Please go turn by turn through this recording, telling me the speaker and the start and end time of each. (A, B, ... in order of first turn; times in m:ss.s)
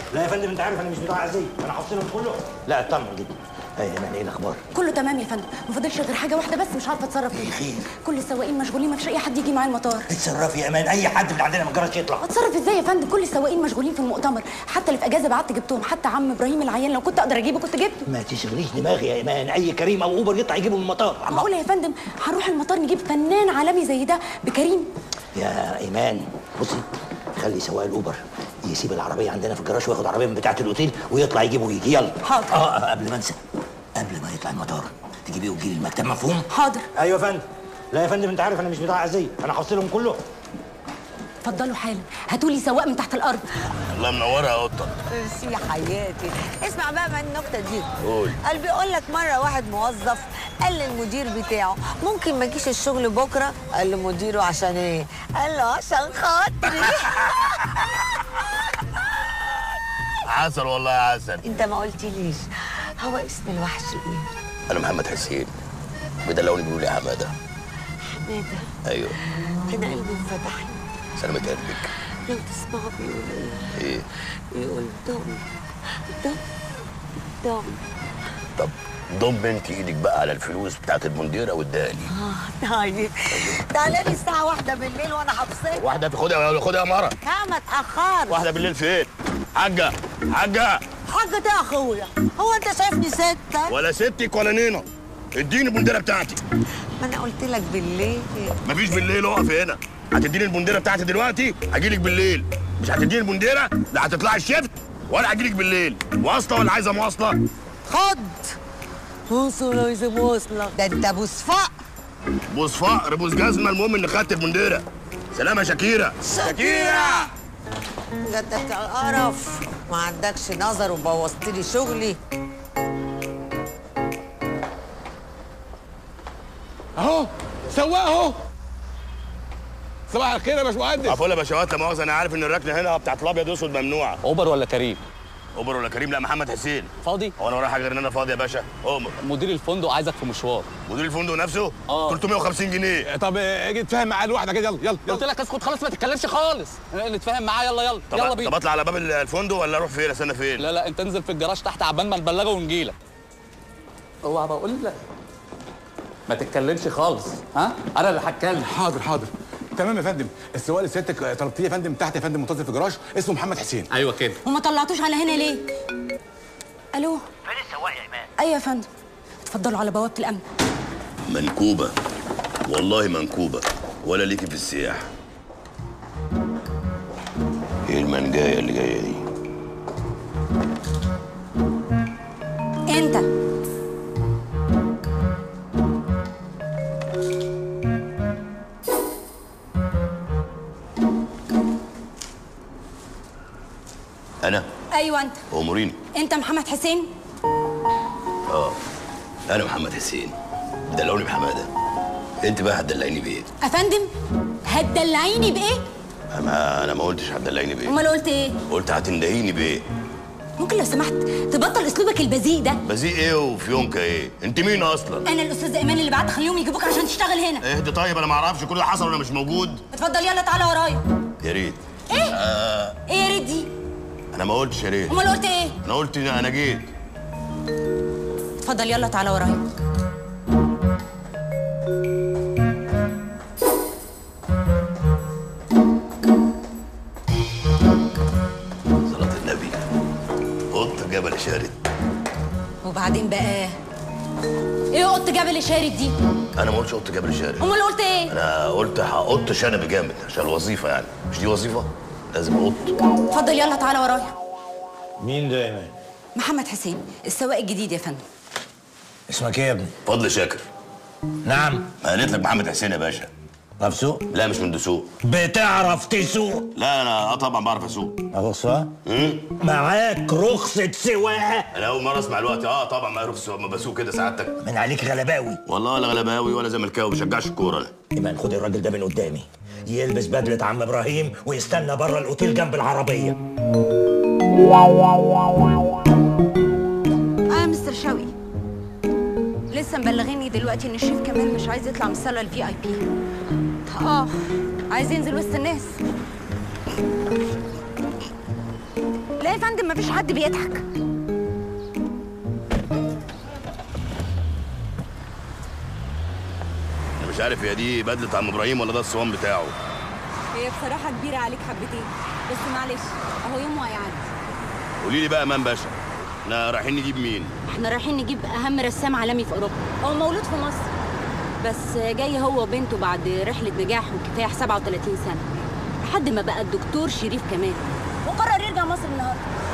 0:00.1-0:04.6 A
0:04.7-0:10.1 B
0:07.3-0:07.9 A
0:10.1-0:12.2 A
0:12.2-0:18.0 B
0:18.1-0:21.5 A
0:21.3-0:24.9 B
0:25.4-0:26.8 A
0:27.4-0:33.4 A
0:32.2-0:32.6 B
0:34.0-0:36.4 A
0:36.5-0:36.8 B
0:37.0-0:40.2 A
0:41.4-0:43.5 B
0:43.9-0:45.0 C
0:45.1-0:47.9 D
0:48.0-0:48.4 C
0:48.4-0:57.4 D
1:00.3-1:01.5 C
1:01.4-1:02.4 D
1:03.0-1:04.3 D
1:04.7-1:05.5 C
1:06.2-1:07.3 C
1:08.1-1:08.7 D
1:08.9-1:09.2 C
1:09.2-1:10.8 D
1:11.2-1:11.9 C
1:11.7-1:14.0 D
1:13.8-1:14.0 C
1:14.5-1:15.5 D
1:16.1-1:16.4 D
1:17.4-1:17.8 D
1:18.6-1:22.1 C
1:22.1-1:25.8 D
1:23.3-1:23.6 C
1:25.8-1:27.2 C
1:27.2-1:28.5 D
1:28.3-1:30.8 C
1:31.1-1:33.8 D
1:33.7-1:36.4 C
1:37.0-1:38.6 D
1:38.6-1:47.4 C
1:47.8-1:48.6 D
1:49.3-1:51.8 D
1:52.5-1:56.2 C
1:56.3-1:57.3 D
1:58.2-2:02.2 D
2:07.0-2:08.4 E
2:10.1-2:11.2 E
2:11.0-2:14.2 C
2:14.2-2:15.0 F
2:15.6-2:19.2 C
2:17.0-2:17.3 F
2:19.2-2:20.7 F
2:20.9-2:23.1 C
2:21.9-2:22.2 F
2:23.1-2:25.2 E
2:25.0-2:28.5 F
2:28.1-2:30.7 C
2:30.6-2:33.0 F
2:34.2-2:35.0 F
2:36.3-2:38.7 F
2:38.7-2:43.9 E
2:43.9-2:44.4 F
2:44.4-2:45.7 B
2:46.9-2:47.2 B
2:47.5-2:48.2 A
2:48.4-2:48.9 B
2:49.5-2:50.4 B
2:51.3-2:51.9 C
2:52.7-2:55.1 C
2:57.9-2:59.2 C
3:02.9-3:03.3 B
3:14.4-3:14.7 C
3:14.9-3:15.4 B
3:15.5-3:16.0 C
3:16.1-3:17.1 B
3:18.5-3:18.8 C
3:19.5-3:20.4 C
3:20.9-3:21.7 C
3:22.4-3:23.5 C
3:23.6-3:24.1 B
3:24.6-3:25.8 B
3:26.3-3:28.0 C
3:27.9-3:28.6 B
3:28.7-3:29.8 C
3:30.6-3:32.8 B
3:32.8-3:35.2 C
3:35.2-3:37.6 B
3:37.6-3:39.8 C
3:39.9-3:41.0 B
3:41.4-3:43.0 C
3:42.1-3:42.4 B
3:43.1-3:43.7 B
3:44.3-3:45.2 C
3:45.1-3:45.8 B
3:45.8-3:46.9 C
3:48.6-3:49.6 B
3:59.1-3:59.8 C
4:00.7-4:01.8 C
4:02.8-4:03.8 B
4:04.9-4:06.2 B
4:06.6-4:07.7 C
4:07.6-4:08.3 B
4:08.3-4:13.0 C
4:13.3-4:14.3 B
4:15.2-4:15.9 A
4:16.4-4:18.2 B
4:19.3-4:19.9 A
4:20.1-4:20.6 C
4:21.4-4:21.9 A
4:22.0-4:23.3 C
4:23.8-4:24.2 A
4:24.3-4:25.1 C
4:25.2-4:26.7 A
4:26.8-4:28.2 C
4:28.3-4:28.9 A
4:29.1-4:29.5 C
4:29.6-4:31.7 A
4:31.7-4:34.5 C
4:34.6-4:35.6 A
4:35.7-4:37.9 C
4:38.1-4:43.4 A
4:47.5-4:48.3 B
4:49.7-4:53.0 B
4:53.9-4:54.4 B
4:54.9-4:56.0 B
4:59.4-5:00.8 B
5:07.2-5:09.8 C
5:10.5-5:14.3 B
5:15.0-5:17.5 C
5:17.7-5:20.9 B
5:21.6-5:25.5 B
5:26.0-5:29.4 B